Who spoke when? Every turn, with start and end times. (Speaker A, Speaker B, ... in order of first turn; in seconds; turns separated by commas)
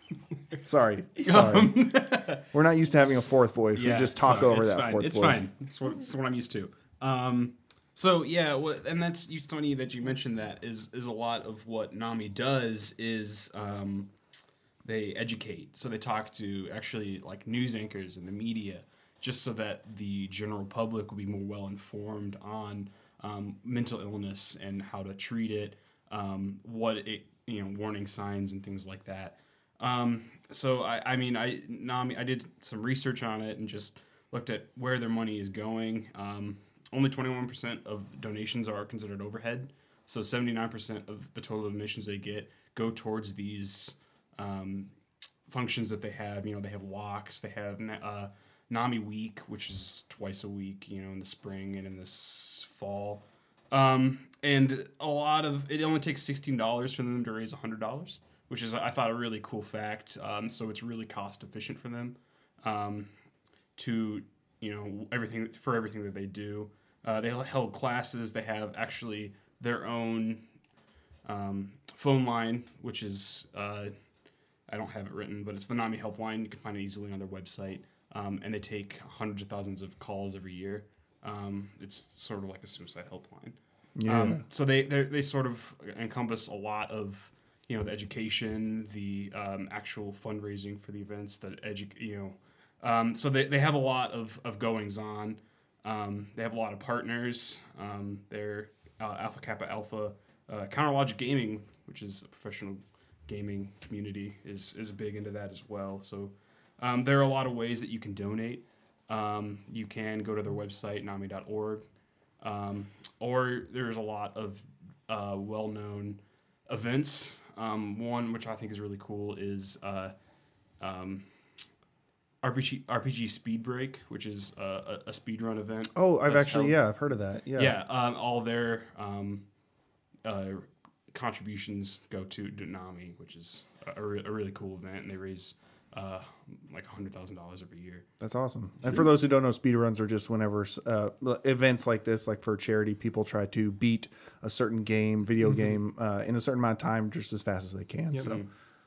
Speaker A: 0.6-1.9, Speaker B: 1.2-2.5, Speaker A: 2.5-5.5, Speaker B: 3.8-14.1, Speaker B: 14.8-44.9, Speaker B: 45.5-63.1, Speaker B: 63.8-70.4, Speaker B: 71.2-73.9, Speaker B: 74.7-111.8, Speaker A: 84.0-84.4, Speaker B: 112.4-120.1, Speaker B: 120.8-121.2, Speaker B: 122.4-126.8, Speaker A: 126.0-127.8, Speaker B: 127.6-129.4, Speaker B: 130.2-138.1, Speaker A: 138.2-148.4, Speaker B: 148.2-148.5